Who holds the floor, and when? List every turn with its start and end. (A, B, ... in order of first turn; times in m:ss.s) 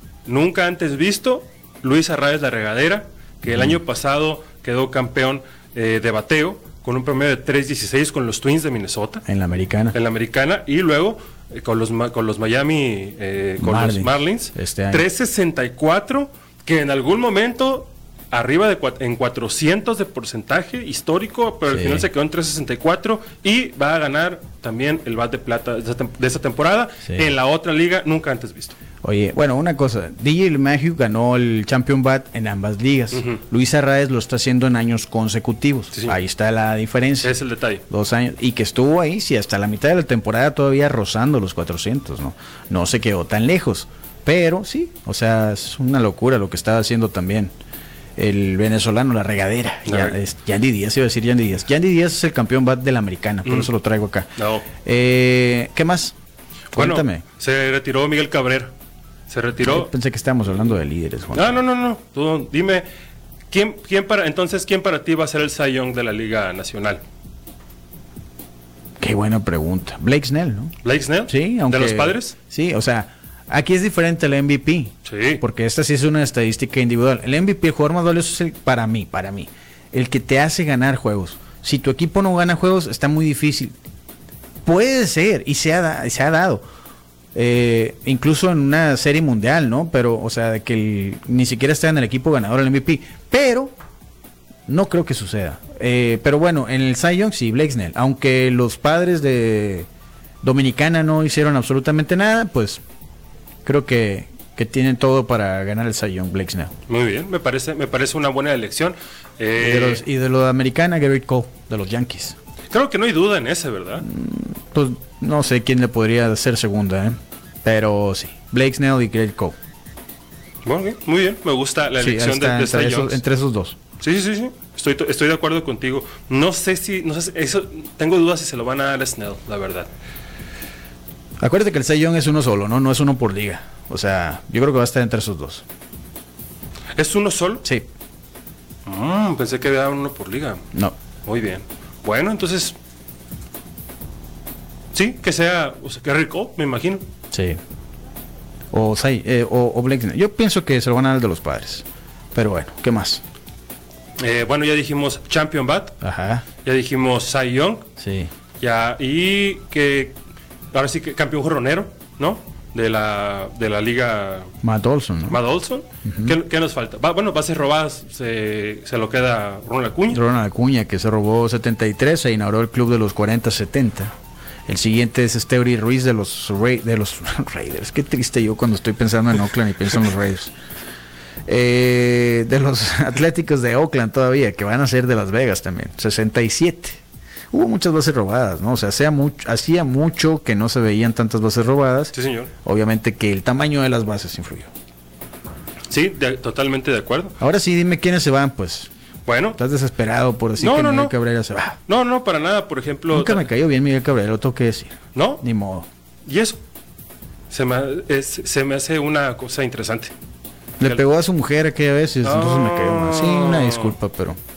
0:00.3-0:09.2 A
0:03.5-0:03.8 B
0:09.2-0:10.0 B
0:09.9-0:28.8 A
0:13.6-0:15.1 B
0:21.7-0:22.1 B
0:29.0-0:37.3 B
0:33.1-0:33.4 A
0:35.9-0:36.2 A
0:37.2-0:37.8 A
0:37.9-0:47.5 B
0:48.2-0:56.2 B
0:49.9-0:50.2 A
0:54.4-0:54.7 A
0:56.7-0:57.2 B
0:56.7-0:58.7 A
0:59.3-0:59.9 A
0:59.6-1:01.6 B
1:01.3-1:02.9 A
1:03.5-1:07.0 A
1:09.0-1:10.7 B
1:10.8-1:12.4 A
1:11.3-1:23.8 B
1:15.0-1:15.4 A
1:24.6-1:26.6 B
1:27.4-1:33.7 B
1:34.7-1:39.9 B
1:40.4-1:42.8 B
1:43.6-1:46.7 B
1:46.9-1:50.0 A
1:49.6-1:52.4 B
1:52.7-1:54.1 A
1:54.0-1:59.6 B
2:00.6-2:03.2 A
2:02.0-2:03.8 B
2:04.0-2:09.9 A
2:11.4-2:15.6 B
2:17.0-2:17.6 A
2:18.9-2:20.6 A
2:21.2-2:22.8 A
2:24.9-2:27.0 A
2:27.3-2:27.6 B
2:28.7-2:33.2 B
2:34.2-2:36.0 A
2:36.0-2:36.4 B
2:36.6-2:37.9 A
2:38.0-2:38.3 B
2:38.6-2:40.2 A
2:40.7-2:44.5 A
2:44.6-2:45.4 B
2:45.3-2:50.2 A
2:46.0-2:46.4 B
2:50.1-2:54.1 B
2:54.7-3:00.5 B
3:01.5-3:07.0 B
3:07.5-3:14.7 B
3:12.1-3:12.5 A
3:15.9-3:17.4 A
3:17.4-3:18.9 B
3:19.3-3:19.6 A
3:19.6-3:21.8 B
3:20.6-3:21.2 A
3:21.9-3:23.4 A
3:23.1-3:25.9 B
3:25.2-3:25.4 A
3:26.3-3:26.6 A
3:27.5-3:30.1 A
3:30.8-3:34.4 B
3:32.2-3:33.9 A